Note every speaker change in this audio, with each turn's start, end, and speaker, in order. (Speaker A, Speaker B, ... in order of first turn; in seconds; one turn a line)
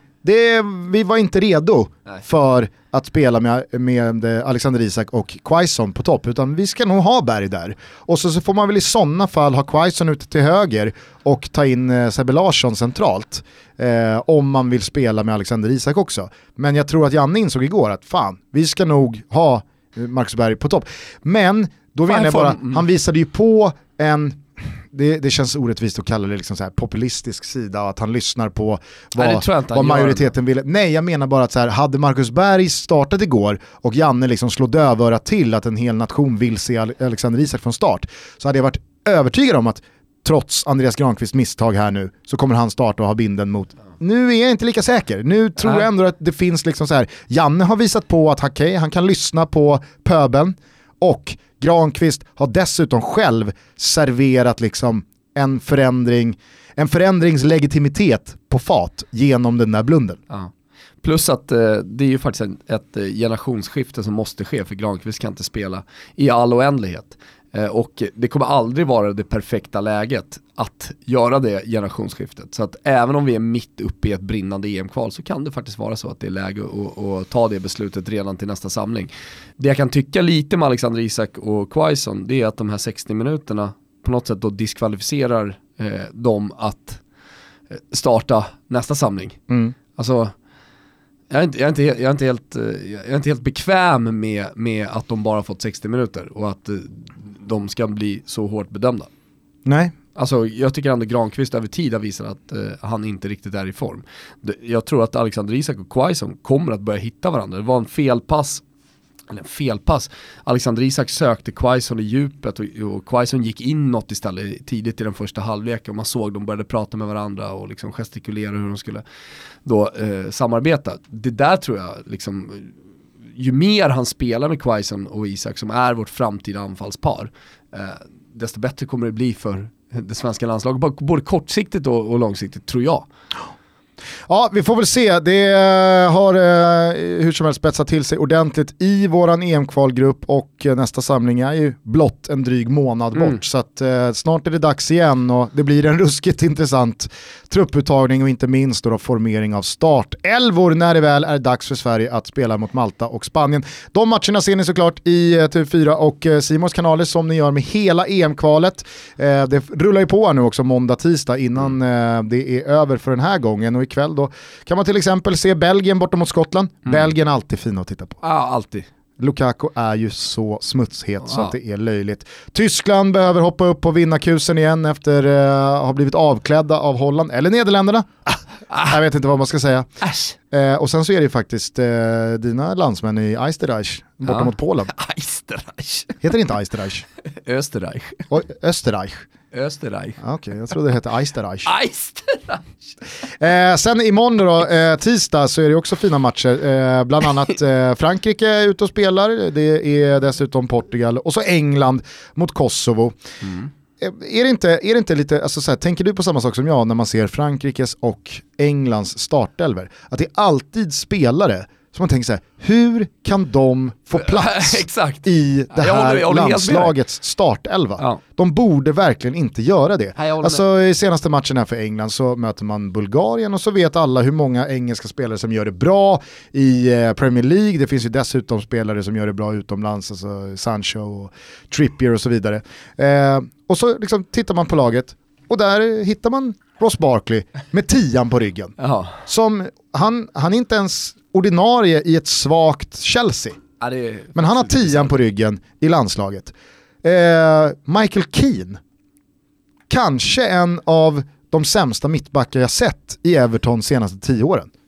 Speaker A: 0.2-60.2
Speaker B: 22.1-22.8
Speaker B: 29.2-30.3
Speaker B: 61.0-87.0
Speaker B: 87.7-89.4
Speaker A: 89.5-89.8
Speaker B: 90.0-90.3
Speaker B: 91.3-99.1
Speaker A: 99.7-99.9
Speaker B: 100.2-108.6
Speaker B: 109.3-119.0
Speaker B: 119.7-122.8
Speaker B: 123.4-133.1
Speaker A: 134.3-168.2
Speaker B: 143.2-143.4
Speaker B: 168.2-168.9
Speaker A: 169.2-179.9
Speaker B: 171.2-171.5
Speaker B: 180.0-180.3
Speaker A: 180.5-184.9
Speaker B: 184.2-186.2
Speaker A: 186.2-187.0
Speaker B: 187.2-188.3
Speaker A: 188.3-189.2
Speaker B: 189.5-190.2
Speaker A: 190.2-191.7
Speaker B: 191.7-192.9
Speaker A: 193.4-203.2
Speaker B: 203.4-203.7
Speaker A: 204.0-238.7
Speaker B: 214.2-216.9
Speaker B: 220.2-220.6
Speaker B: 238.8-239.2
Speaker A: 239.3-243.6
Speaker B: 243.8-245.1
Speaker A: 244.3-248.8
Speaker A: 249.9-254.7